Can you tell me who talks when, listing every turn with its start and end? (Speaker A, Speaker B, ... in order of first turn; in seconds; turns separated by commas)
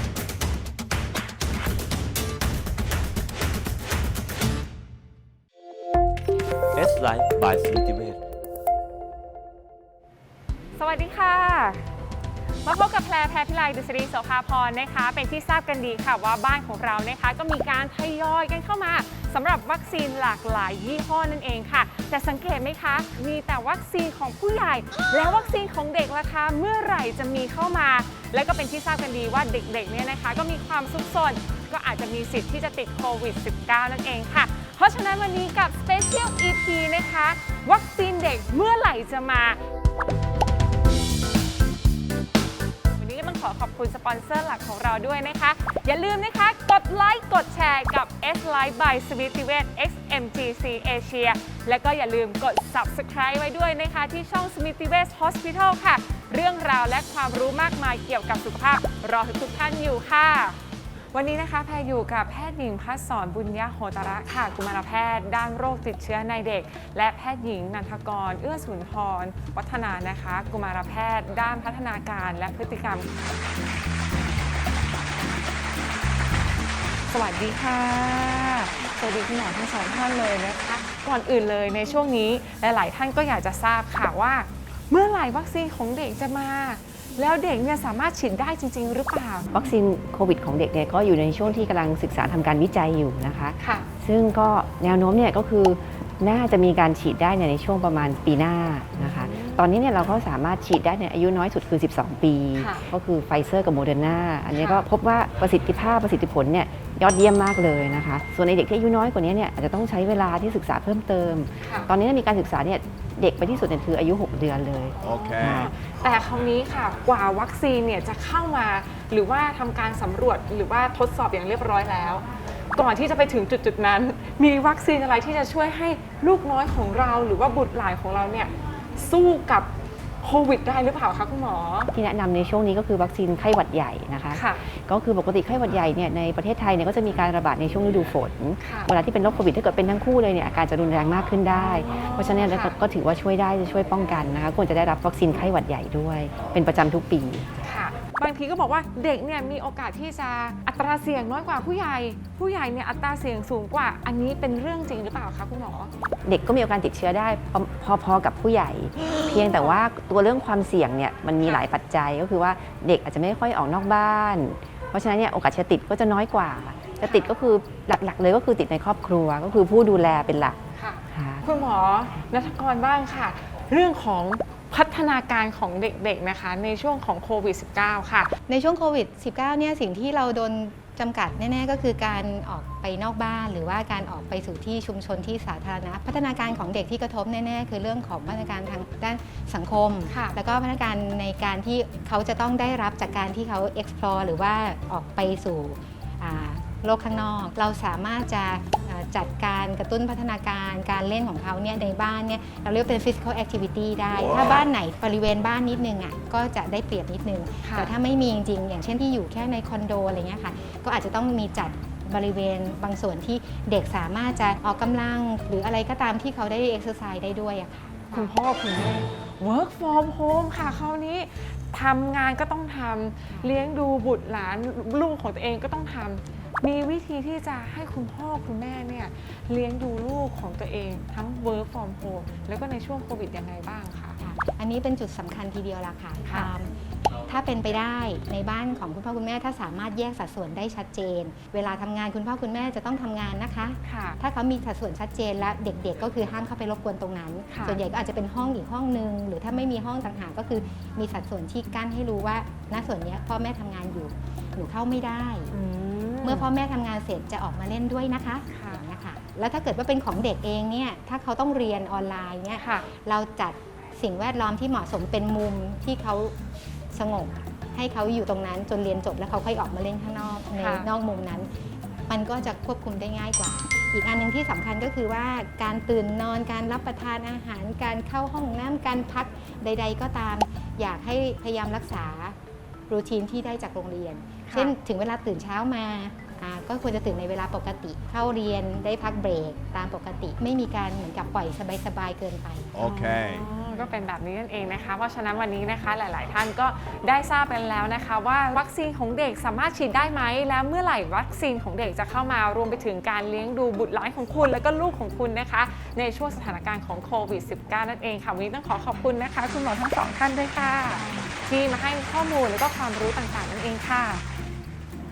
Speaker A: 6.7-8.2, Speaker B: 10.8-11.9, Speaker B: 12.6-39.6, Speaker B: 43.0-60.6, Speaker B: 61.1-73.1, Speaker B: 77.1-89.5, Speaker C: 89.5-115.7, Speaker B: 93.6-93.9, Speaker B: 99.0-99.7, Speaker B: 102.6-102.9, Speaker B: 104.5-104.8, Speaker B: 111.6-111.9, Speaker B: 115.0-129.7, Speaker A: 115.0-115.6, Speaker B: 130.2-131.9, Speaker C: 131.9-147.5, Speaker B: 134.3-134.6, Speaker B: 138.6-138.9, Speaker B: 141.5-142.8, Speaker B: 147.6-155.9, Speaker C: 156.2-170.6, Speaker B: 159.2-159.8, Speaker B: 161.4-161.7, Speaker B: 167.0-167.3, Speaker B: 170.7-178.4, Speaker C: 171.1-171.4, Speaker D: 178.5-218.3, Speaker B: 190.1-190.3, Speaker B: 207.6-207.9, Speaker B: 218.1-234.2, Speaker D: 234.2-255.5, Speaker B: 236.2-236.5, Speaker B: 243.8-244.2, Speaker B: 247.5-247.8, Speaker B: 255.5-256.5, Speaker D: 256.2-266.3, Speaker B: 258.5-258.8, Speaker B: 262.6-262.9, Speaker D: 266.9-271.5, Speaker B: 270.6-270.9, Speaker D: 272.1-282.4, Speaker D: 282.9-292.8, Speaker B: 284.5-284.7, Speaker A: 292.8-293.4, Speaker B: 292.8-314.2, Speaker D: 311.0-311.3